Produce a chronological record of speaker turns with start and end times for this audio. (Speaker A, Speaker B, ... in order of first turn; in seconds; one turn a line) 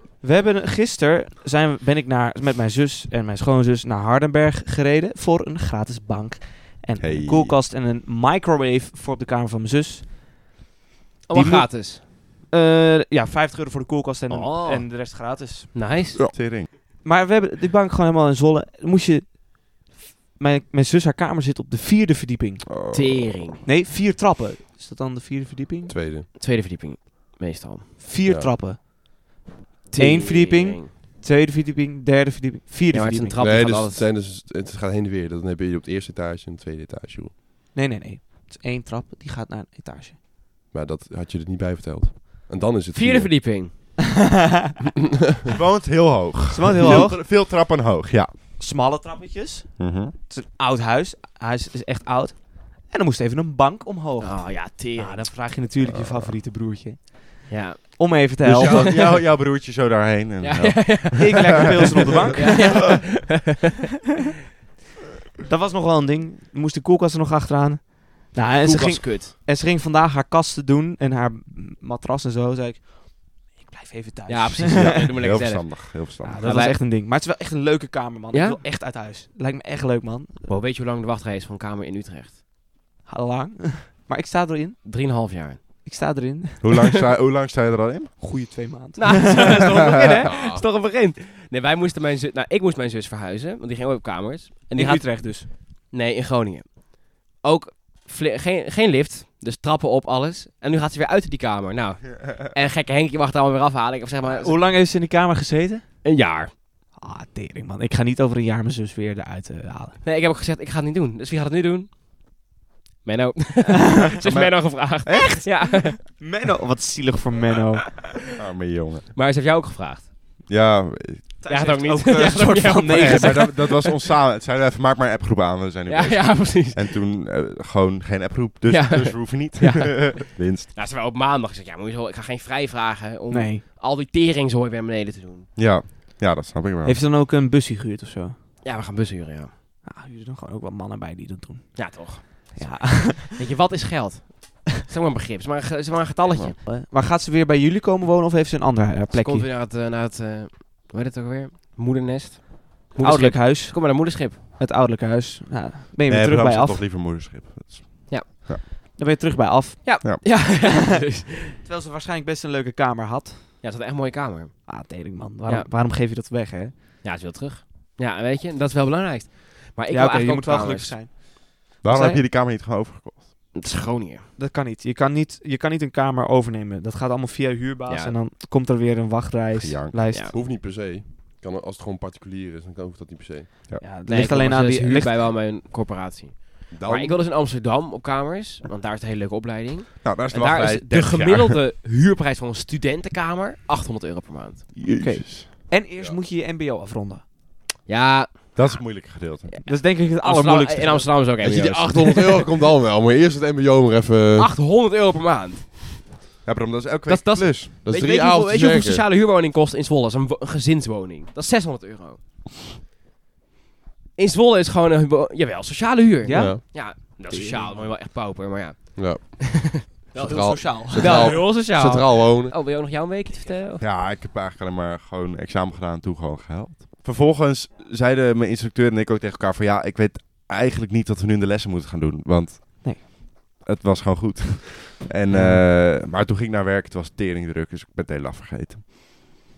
Speaker A: 0.2-10.1
Speaker B: 7.0-7.6
Speaker C: 11.3-12.0
Speaker A: 11.3-11.8
Speaker A: 12.5-15.7
Speaker C: 14.3-15.0
Speaker C: 15.7-16.2
Speaker B: 16.2-16.7
Speaker A: 17.0-22.7
Speaker B: 22.7-23.4
Speaker C: 22.9-23.6
Speaker A: 23.6-25.9
Speaker D: 25.9-26.3
Speaker C: 26.4-28.0
Speaker A: 28.0-28.9
Speaker C: 29.9-30.9
Speaker A: 29.9-33.4
Speaker C: 32.9-34.1
Speaker D: 33.4-37.3
Speaker A: 37.7-40.2
Speaker D: 40.7-43.3
Speaker C: 42.9-43.7
Speaker A: 44.3-44.7
Speaker B: 45.5-48.3
Speaker A: 46.5-47.2
Speaker A: 48.6-59.0
Speaker B: 49.8-50.1
Speaker C: 54.2-55.3
Speaker B: 55.9-56.3
Speaker C: 57.5-58.1
Speaker B: 58.4-62.3
Speaker C: 58.6-59.2
Speaker C: 60.4-63.6
Speaker A: 61.2-63.1
Speaker A: 65.5-75.1
Speaker C: 68.6-69.3
Speaker C: 74.3-76.8
Speaker B: 74.7-76.5
Speaker A: 76.2-80.6
Speaker C: 78.3-78.6
Speaker C: 80.5-82.4
Speaker A: 83.1-84.8
Speaker C: 84.8-85.6
Speaker A: 85.8-86.8
Speaker B: 86.6-88.2
Speaker A: 88.2-89.8
Speaker C: 89.0-104.6
Speaker B: 89.9-90.2
Speaker D: 90.2-90.6
Speaker A: 94.7-95.5
Speaker A: 104.3-105.8
Speaker C: 106.0-106.5
Speaker A: 107.0-110.0
Speaker C: 110.0-111.9
Speaker C: 113.0-116.2
Speaker A: 113.7-114.1
Speaker B: 114.2-115.3
Speaker A: 115.1-118.0
Speaker B: 118.4-119.1
Speaker C: 119.1-120.1
Speaker B: 120.5-121.3
Speaker A: 121.4-123.8
Speaker C: 121.5-123.9
Speaker B: 122.9-130.7
Speaker C: 125.9-127.0
Speaker C: 128.7-135.5
Speaker A: 133.3-133.6
Speaker B: 135.6-137.0
Speaker A: 136.8-138.4
Speaker C: 138.6-139.5
Speaker A: 139.8-143.4
Speaker C: 141.8-146.6
Speaker A: 146.6-149.5
Speaker C: 149.1-154.4
Speaker A: 153.0-156.8
Speaker B: 156.1-158.6
Speaker A: 159.0-161.0
Speaker C: 159.8-161.6
Speaker A: 161.6-163.5
Speaker C: 163.6-164.7
Speaker A: 164.7-166.8
Speaker C: 167.0-171.0
Speaker A: 169.9-172.2
Speaker B: 171.8-173.3
Speaker C: 173.5-174.3
Speaker A: 174.4-180.3
Speaker C: 177.9-178.2
Speaker B: 179.6-180.0
Speaker D: 180.3-183.5
Speaker A: 183.8-185.2
Speaker C: 184.1-194.7
Speaker D: 186.8-187.2
Speaker B: 190.0-191.6
Speaker B: 194.8-195.5
Speaker A: 195.0-197.2
Speaker C: 197.9-198.8
Speaker B: 198.6-199.5
Speaker C: 199.5-202.4
Speaker A: 199.7-201.1
Speaker D: 201.4-204.5
Speaker B: 201.5-201.8
Speaker C: 204.4-205.7
Speaker B: 206.4-207.7
Speaker C: 207.1-212.2
Speaker D: 207.8-209.0
Speaker C: 214.2-223.8
Speaker A: 216.2-217.8
Speaker D: 216.3-216.6
Speaker D: 219.0-222.5
Speaker A: 220.2-221.4
Speaker B: 223.8-233.1
Speaker B: 233.6-238.9
Speaker A: 235.3-235.7